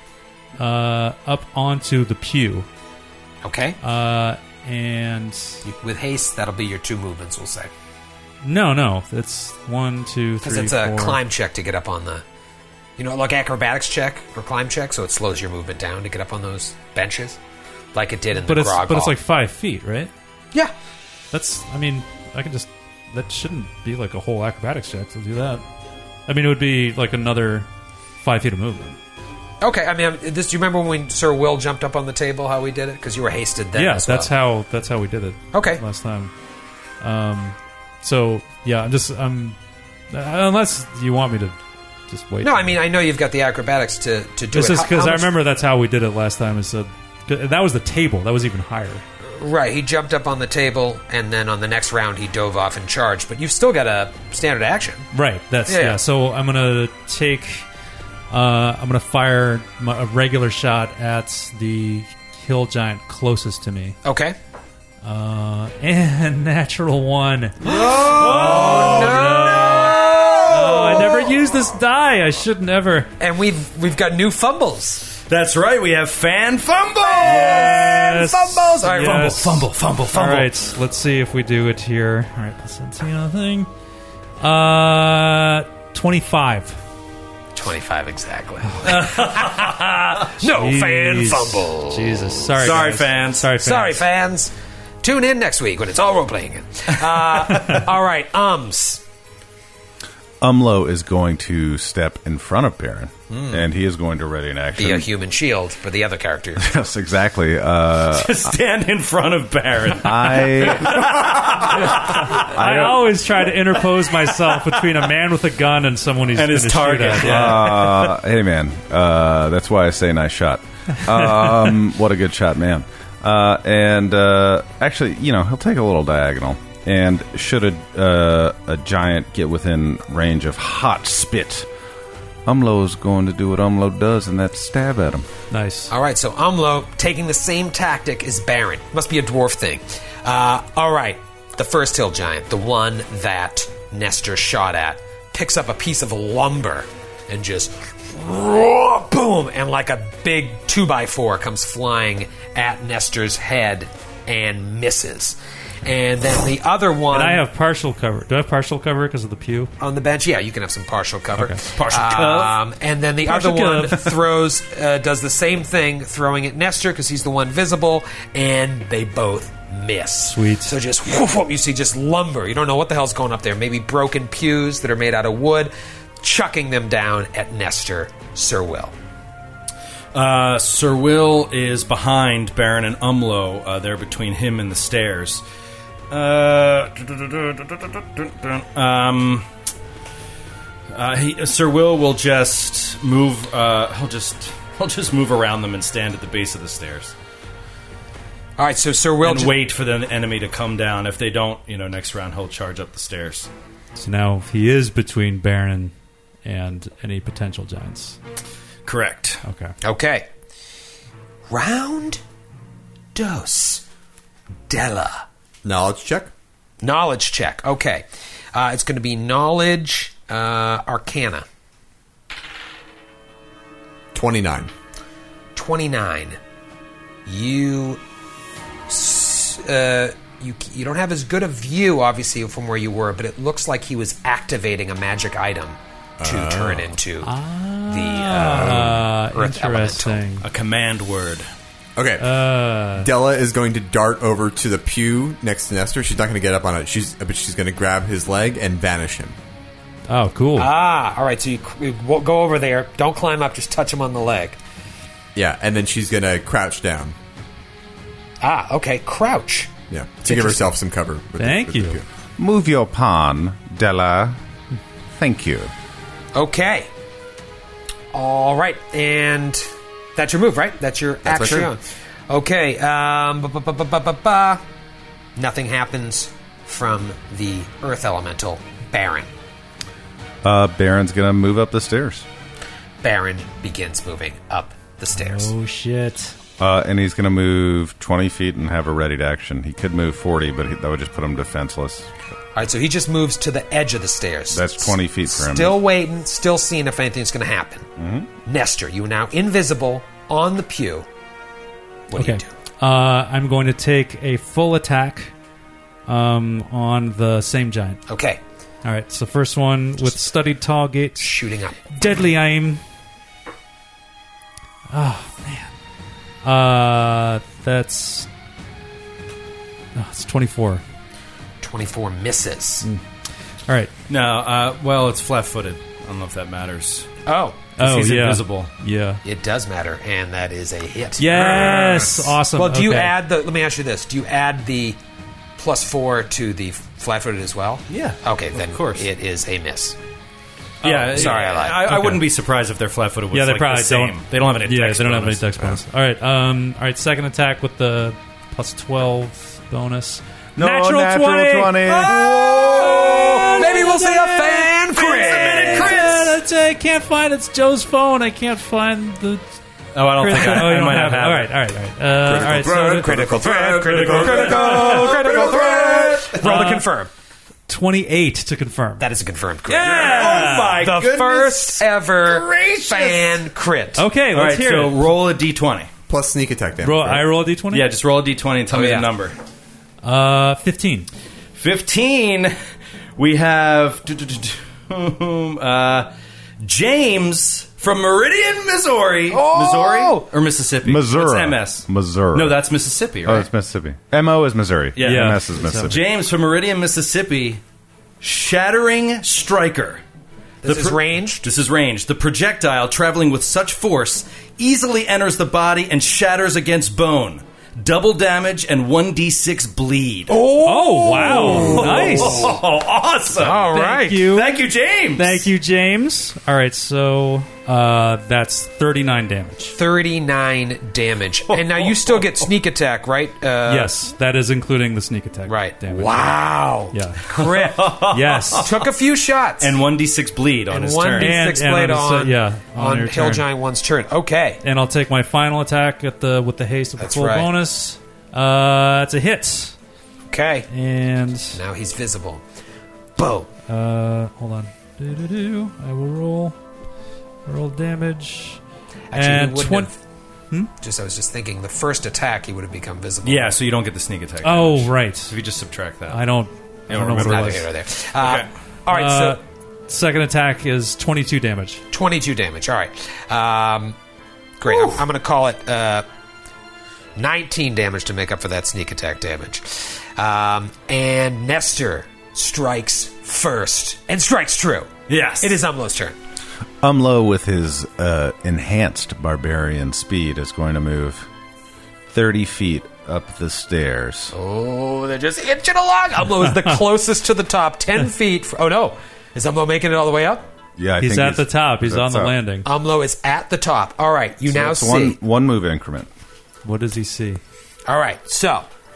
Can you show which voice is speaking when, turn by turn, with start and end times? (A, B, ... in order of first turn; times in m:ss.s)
0:00.6-0:02.7 A
0:03.4-0:03.8 B
0:03.8-0:05.6 A
0:05.6-0:07.7 B
0:08.4-0:11.2 A
0:10.4-0:12.2 B
0:13.0-0:17.4 B
0:17.9-0:19.2 B
0:18.4-0:20.1 A
0:21.3-0:25.6 A
0:26.3-0:27.7 A
0:28.2-0:29.0 A
0:29.6-0:34.3 B
0:33.7-0:36.3 A
0:35.5-0:35.8 B
0:37.0-0:39.6 A
0:40.1-0:42.7 A
0:42.4-0:45.3 B
0:44.5-0:49.0 A
0:49.2-0:55.1 B
0:55.1-0:57.6 A
0:55.7-0:56.0 B
0:58.3-1:04.0 A
1:04.0-1:04.4 B
1:05.0-1:13.1 A
1:07.6-1:10.4 C
1:07.6-1:11.4 B
1:13.2-1:15.1 B
1:15.3-1:20.5 C
1:17.1-1:19.5 B
1:17.2-1:23.7 A
1:24.4-1:26.8 A
1:27.5-1:32.5 B
1:28.6-1:34.0 A
1:28.8-1:29.7 C
1:32.6-1:33.5 C
1:33.6-1:39.0 B
1:40.4-1:45.1 D
1:43.3-1:43.6 B
1:44.8-1:46.7 B
1:46.6-1:48.5 D
1:48.1-1:52.5 C
1:50.0-1:53.1 D
1:51.8-1:57.9 A
1:56.4-1:58.1 C
1:57.2-2:11.7 D
2:12.4-2:15.3 D
2:15.5-2:15.9 A
2:15.9-2:37.4 B
2:37.1-2:39.7 A
2:39.8-2:58.9 B
2:41.7-2:42.6 C
2:43.2-2:44.2 A
2:50.3-2:50.7 A
3:00.1-3:05.4 C
3:06.1-3:09.4 C
3:10.9-3:17.1 C
3:18.6-3:19.6 B
3:19.2-3:23.5 C
3:24.0-3:25.9 A
3:26.4-3:28.2 A
3:28.8-3:29.4 C
3:29.4-3:29.7 A
3:29.8-3:30.3 B
3:31.5-3:32.2 B
3:33.1-3:33.8 B
3:34.7-3:35.2 B
3:35.6-3:36.3 E
3:36.8-3:41.4 B
3:44.1-3:44.7 E
3:45.5-3:46.4 B
3:47.2-3:48.0 B
3:48.9-3:57.3 B
3:56.2-3:56.9 E
3:57.2-4:00.5 A
3:57.9-4:00.2 B
3:58.5-3:59.0 E
4:00.4-4:01.5 C
4:02.0-4:02.3 E
4:02.2-4:03.1 A
4:03.0-4:09.4 E
4:10.1-4:10.7 A
4:10.6-4:14.6 B
4:15.3-4:17.1 E
4:18.4-4:20.7 B
4:19.9-4:22.0 E
4:21.4-4:22.0 A
4:22.4-4:24.4 D
4:25.1-4:25.7 D
4:26.3-4:26.9 B
4:28.1-4:34.6 B
4:31.2-4:31.7 E
4:35.4-4:39.3 B
4:40.4-4:42.2 D
4:43.0-4:45.5 B
4:45.1-4:46.3 A
4:46.6-4:52.1 D
4:52.5-4:57.9 B
4:54.5-4:55.8 D
4:58.0-4:58.3 D
4:58.4-5:01.1 B
5:02.1-5:02.5 B
5:02.1-5:05.3 A
5:06.1-5:08.0 A
5:08.1-5:08.4 B
5:08.8-5:11.4 A
5:11.2-5:12.1 B
5:11.9-5:12.8 A
5:14.9-5:15.7 A
5:16.4-5:18.3 A
5:19.9-5:20.8 A
5:21.6-5:22.8 B
5:23.7-5:23.9 A
5:24.1-5:27.1 C
5:27.2-5:27.6 B
5:27.8-5:28.7 C
5:27.8-5:29.2 A
5:29.2-5:31.9 B
5:31.2-5:33.2 A
5:31.4-5:32.2 E
5:32.5-5:35.0 B
5:35.6-5:40.0 B
5:37.9-5:39.1 C
5:40.8-5:45.5 C
5:40.8-5:42.2 A
5:40.8-5:41.9 B
5:43.3-5:52.2 A
5:50.6-5:52.4 D
5:52.0-5:56.3 B
5:52.4-5:53.0 E
5:52.7-5:59.4 A
5:55.0-5:56.3 C
5:59.9-6:01.5 C
6:00.2-6:03.3 A
6:02.2-6:06.3 E
6:03.0-6:07.1 B
6:03.7-6:06.8 C
6:04.4-6:05.1 A
6:06.4-6:06.8 A
6:07.7-6:09.0 A
6:09.0-6:14.0 B
6:09.7-6:10.8 A
6:09.7-6:13.3 C
6:14.0-6:15.0 A
6:14.3-6:15.9 C
6:16.1-6:17.3 E
6:16.8-6:17.9 A
6:17.7-6:19.4 C
6:18.7-6:19.1 B
6:20.0-6:21.1 A
6:21.5-6:22.5 C
6:23.2-6:33.5 C
6:29.3-6:30.3 B
6:30.8-6:32.6 D
6:33.2-6:36.0 D
6:35.0-6:37.6 C
6:35.0-6:36.0 A
6:38.2-6:40.0 C
6:40.6-6:41.4 B
6:40.6-6:50.4 C
6:50.3-6:52.6 B
6:50.6-6:52.5 A
6:51.2-6:53.7 C
6:53.4-6:54.3 B
6:53.7-6:54.6 A
6:54.3-6:55.4 C
6:55.1-6:59.8 A
6:59.8-7:03.9 B
7:01.5-7:02.3 C
7:03.6-7:06.3 A
7:05.5-7:08.0 B
7:06.9-7:07.2 A
7:07.3-7:08.8 C
7:08.0-7:08.7 A
7:08.6-7:09.7 B
7:09.6-7:11.4 C
7:10.7-7:14.6 B
7:11.2-7:13.4 A
7:14.6-7:19.7 A
7:17.0-7:17.5 B
7:20.3-7:20.7 B
7:20.7-7:21.6 A
7:21.5-7:22.4 B
7:23.2-7:23.5 B
7:23.7-7:26.6 A
7:27.4-7:28.6 A
7:29.1-7:30.0 B
7:29.1-7:29.9 A
7:30.8-7:33.5 B
7:33.2-7:36.2 C
7:34.4-7:35.3 A
7:36.1-7:37.7 A
7:36.9-7:37.6 C
7:37.0-7:39.4 B
7:38.2-7:38.5 C
7:38.9-7:41.8 A
7:41.9-7:44.0 B
7:44.6-7:46.0 B
7:47.2-7:56.2 B
7:55.1-7:55.6 C
7:56.8-8:01.3 D
8:02.1-8:04.3 D
8:04.3-8:10.4 B
8:10.8-8:12.3 D
8:11.0-8:12.7 A
8:12.6-8:15.2 B
8:14.5-8:16.1 D
8:16.6-8:17.4 A
8:17.9-8:18.6 B